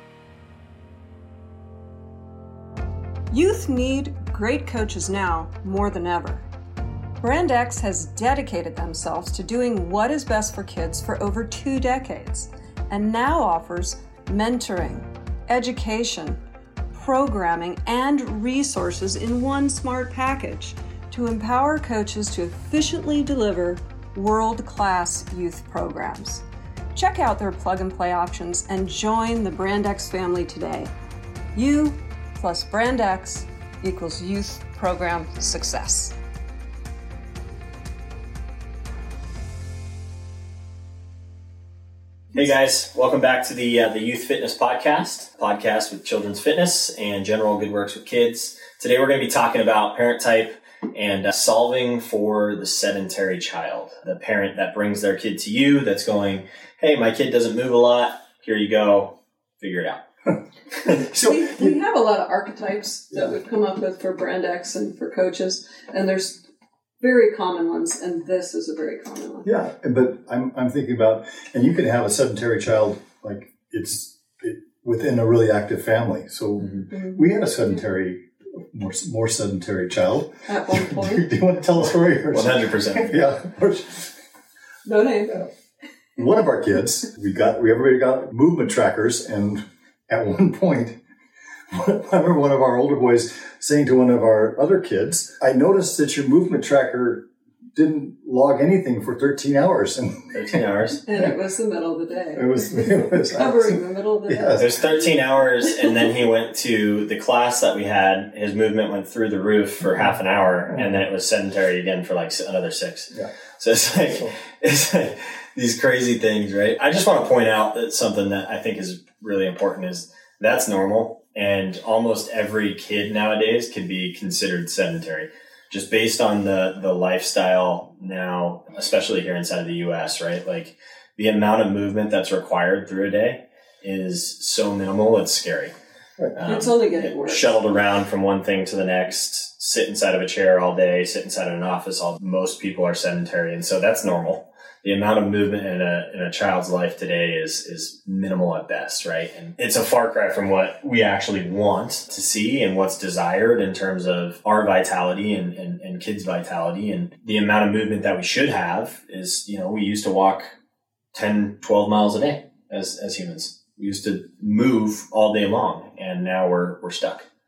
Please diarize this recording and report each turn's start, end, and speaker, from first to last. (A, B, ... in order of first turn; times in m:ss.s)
0:03.3-0:06.5 A
0:07.2-0:16.4 A
0:16.9-0:30.9 A
0:31.5-0:36.1 A
0:42.3-1:00.0 B
1:00.8-1:01.1 B
1:00.8-1:01.7 C
1:01.2-1:06.4 A
1:07.0-1:09.5 A
1:09.4-1:24.1 C
1:16.9-1:17.7 A
1:20.5-1:21.3 A
1:22.3-1:23.2 B
1:24.8-1:25.5 A
1:26.2-1:31.0 C
1:31.7-1:40.6 C
1:40.3-1:41.0 B
1:41.0-1:46.1 A
1:42.3-1:44.7 C
1:44.6-2:15.7 B
2:16.3-2:40.5 B
2:16.4-2:17.6 A
2:41.1-2:47.2 B